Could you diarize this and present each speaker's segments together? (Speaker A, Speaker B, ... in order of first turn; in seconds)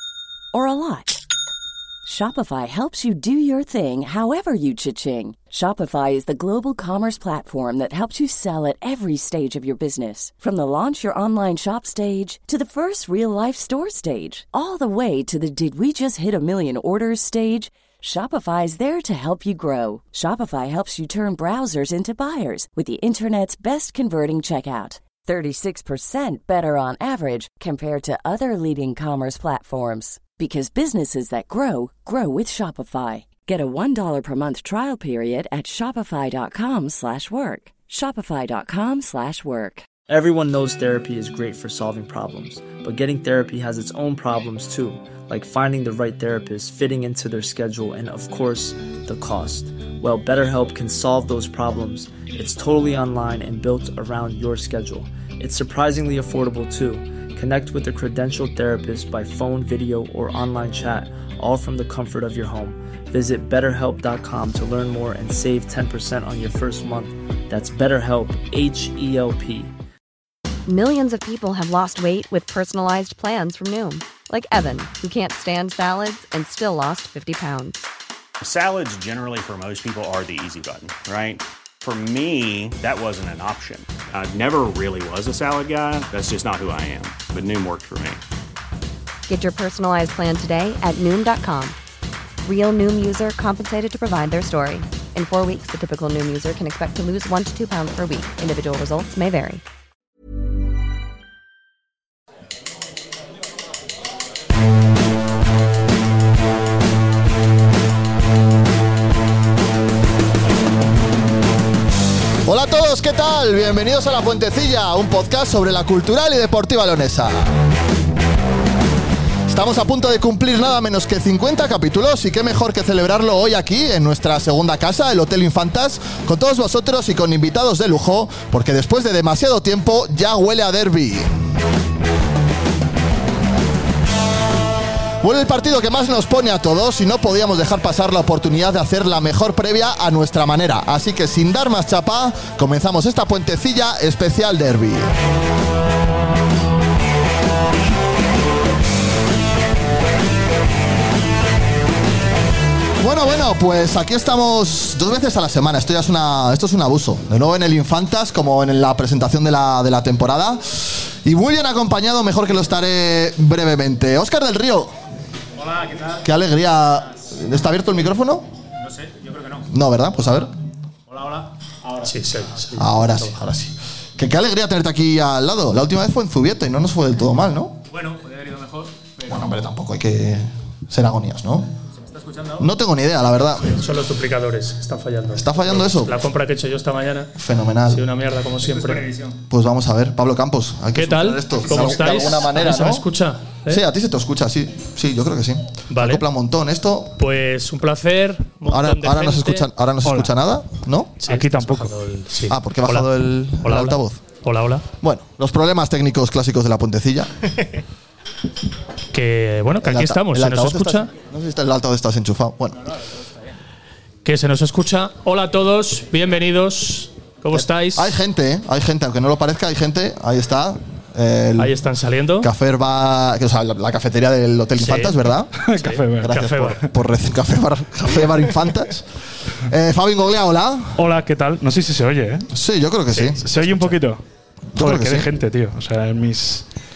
Speaker A: 0.5-1.2, 2.0-39.9
Speaker B: 40.1-69.7
Speaker C: 70.7-77.8, 89.3-91.8, 92.4-99.6
Speaker D: 78.4-88.2
Speaker E: 112.5-117.5, 119.5-131.5, 135.2-145.1, 153.0-164.9, 166.2-168.5, 169.7-170.5, 172.8-177.8, 179.3-181.7, 182.6-183.7, 185.3-186.2, 187.4-188.1, 189.5-193.0, 193.7-197.2, 198.6-201.2, 202.5-204.2, 205.0-207.3, 209.8-212.8, 217.5-221.7, 222.4-225.5, 226.2-229.1, 229.7-231.0, 232.5-233.4, 234.7-235.3
Speaker F: 165.6-166.3, 168.8-170.4, 171.1-172.2, 177.9-179.6, 182.0-182.7, 188.6-189.4, 191.6-192.3, 213.0-213.5
Speaker G: 172.0-173.3, 183.6-187.3, 187.9-189.1, 190.9-193.8, 195.9-196.2, 197.2-199.7, 201.2-203.1, 203.6-204.8, 209.1-211.1, 214.2-218.2, 221.6-222.5, 224.8-225.2, 225.8-226.8
Speaker H: 200.1-200.3, 201.3-201.9, 225.6-226.4, 231.0-232.5, 233.3-234.2, 234.8-236.7